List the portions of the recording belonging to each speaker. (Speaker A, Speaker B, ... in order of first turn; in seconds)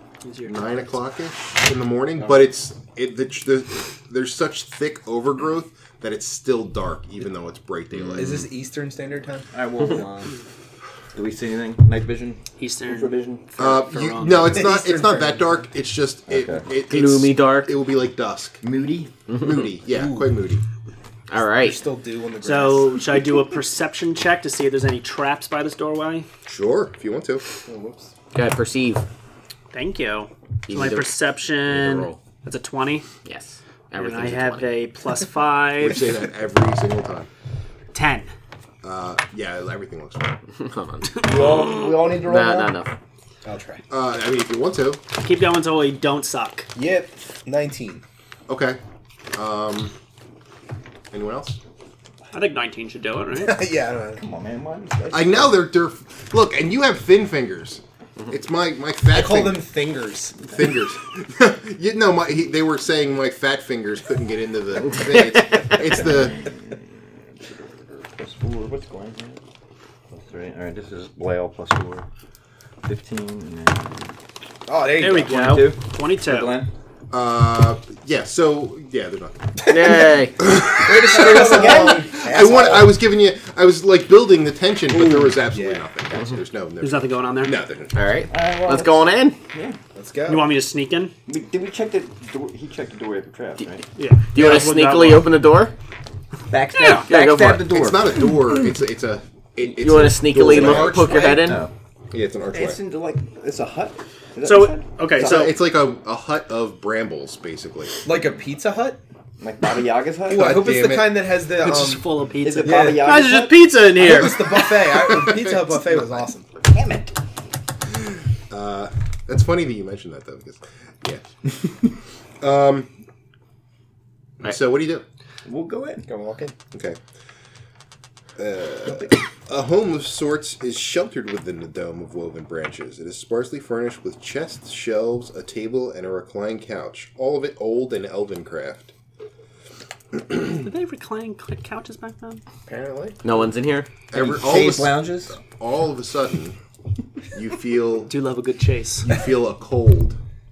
Speaker A: 0.2-0.6, 12.6-14.7, 22.4-26.3, 29.7-33.1, 33.9-36.0, 37.9-38.3, 45.2-46.7, 52.3-53.6, 75.0-76.6, 86.8-87.6, 90.3-91.1, 94.0-95.3, 96.7-97.1, 104.4-105.5, 111.6-114.6, 140.6-142.4, 148.1-149.1
Speaker B: 0.4-8.4, 13.6-18.6, 19.3-20.6, 26.4-27.4, 35.8-37.3, 38.8-40.4, 43.9-45.0, 48.5-48.8, 49.3-49.9, 51.1-51.6, 55.1-59.7, 60.4-66.4, 77.1-79.5, 80.4-88.1, 97.7-101.3, 102.1-102.8, 105.2-108.0, 110.3-111.3, 114.9-115.8, 118.5-121.6, 122.4-122.9, 124.4-125.0, 126.7-127.0, 128.4-138.9, 144.1-146.6, 147.3-148.1, 149.0-150.2
Speaker C: 8.1-9.5, 14.5-15.6, 19.9-20.3, 21.6-22.9, 27.6-28.1, 43.4-43.8, 46.7-48.0, 53.4-54.2, 59.1-60.5, 74.7-75.4, 79.7-80.1, 80.7-82.9, 85.4-85.8, 89.9-90.5, 100.4-101.5, 108.0-109.0, 110.2-113.1, 113.9-116.5, 126.0-126.5, 142.7-143.1
Speaker D: 9.5-10.3, 11.1-13.5, 16.3-16.6, 18.6-19.1, 41.1-42.7, 54.2-55.6, 65.9-69.4, 70.1-72.0, 72.8-74.1, 75.2-76.7, 81.0-82.2, 84.9-85.2, 88.3-89.8, 91.3-93.8, 96.5-98.2, 100.8-101.7, 102.5-105.5, 109.4-110.6, 112.4-113.7, 116.6-117.1, 125.4-126.0, 144.1-145.4
Speaker E: 16.9-17.7, 19.3-19.6, 21.3-21.8, 28.3-29.0, 30.7-31.1, 31.6-32.2, 33.2-34.7, 40.5-42.9, 79.7-80.4, 87.9-89.4, 94.3-95.7, 97.1-97.7, 99.7-101.6, 143.2-143.9